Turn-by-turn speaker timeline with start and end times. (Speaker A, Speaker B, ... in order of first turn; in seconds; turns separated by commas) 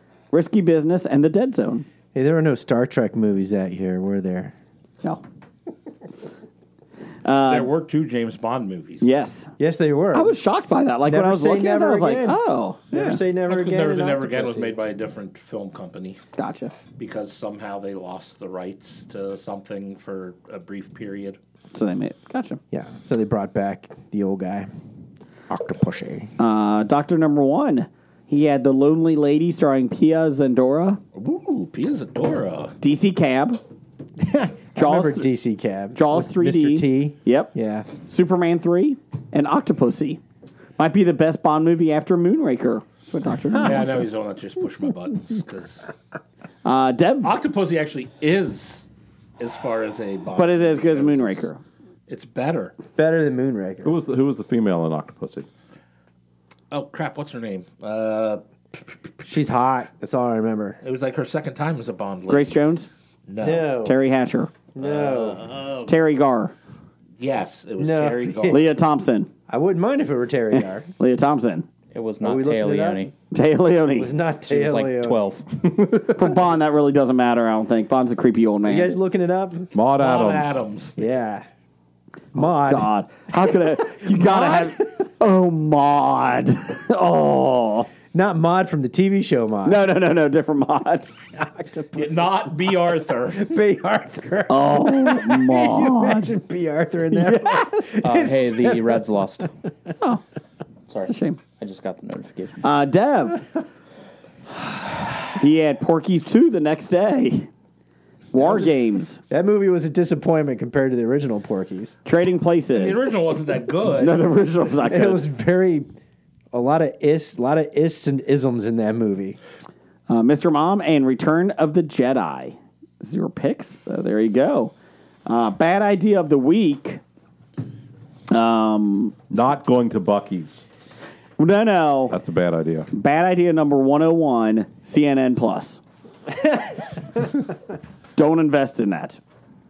Speaker A: 0.3-1.9, Speaker B: 2.1-4.5, Speaker A: 7.2-7.7, Speaker C: 7.5-9.0, Speaker A: 9.0-9.5, Speaker B: 9.6-10.3, Speaker A: 10.1-13.2, Speaker B: 11.0-14.8, Speaker C: 13.5-16.2, Speaker A: 16.4-16.7, Speaker C: 17.0-21.4, Speaker A: 21.7-22.6, Speaker B: 22.7-24.7, Speaker B: 25.5-26.3, Speaker A: 26.4-31.0, Speaker C: 31.1-32.8, Speaker A: 32.8-33.6, Speaker B: 34.2-37.9, Speaker A: 34.8-35.3, Speaker A: 35.9-40.2, Speaker A: 40.8-43.9, Speaker C: 43.6-45.8, Speaker A: 46.6-47.4, Speaker C: 47.2-48.8, Speaker C: 49.4-51.5, Speaker A: 50.3-51.6, Speaker C: 52.1-52.7, Speaker B: 52.9-53.9, Speaker D: 53.8-55.5, Speaker C: 56.7-58.4, Speaker B: 59.2-60.8, Speaker C: 60.8-62.6, Speaker A: 62.3-62.9, Speaker C: 63.3-63.8, Speaker B: 63.4-64.0, Speaker A: 63.8-64.5, Speaker B: 64.7-65.4, Speaker C: 64.8-65.9, Speaker A: 65.8-66.5, Speaker C: 67.2-68.7, Speaker B: 67.8-68.7, Speaker A: 68.5-69.3, Speaker B: 69.5-70.9, Speaker A: 70.5-71.7, Speaker E: 71.9-73.1, Speaker B: 72.2-73.1, Speaker A: 73.3-74.1, Speaker B: 73.9-75.2, Speaker E: 74.5-75.5, Speaker D: 75.6-76.3, Speaker A: 76.0-79.0, Speaker B: 78.6-79.7, Speaker D: 79.7-80.6, Speaker C: 80.0-81.0, Speaker B: 81.0-81.5, Speaker B: 82.3-84.8, Speaker A: 82.4-87.9, Speaker B: 88.1-89.8, Speaker A: 89.6-91.1, Speaker B: 91.3-92.8, Speaker C: 92.0-93.6, Speaker B: 93.3-99.1, Speaker A: 94.5-96.3, Speaker A: 97.1-97.9, Speaker E: 98.0-99.5, Speaker E: 100.9-102.6, Speaker A: 101.0-101.4, Speaker A: 102.6-103.5, Speaker A: 105.2-107.5, Speaker A: 108.3-109.2, Speaker B: 108.4-108.7, Speaker B: 109.3-111.9, Speaker A: 112.0-113.0, Speaker C: 112.7-114.2, Speaker A: 114.0-115.2, Speaker B: 114.8-115.9, Speaker B: 116.5-119.4, Speaker A: 120.1-124.7, Speaker A: 125.2-127.0, Speaker A: 128.3-129.4, Speaker D: 129.3-130.6, Speaker A: 131.4-132.1, Speaker D: 132.1-132.9, Speaker A: 132.9-135.8, Speaker A: 138.2-139.2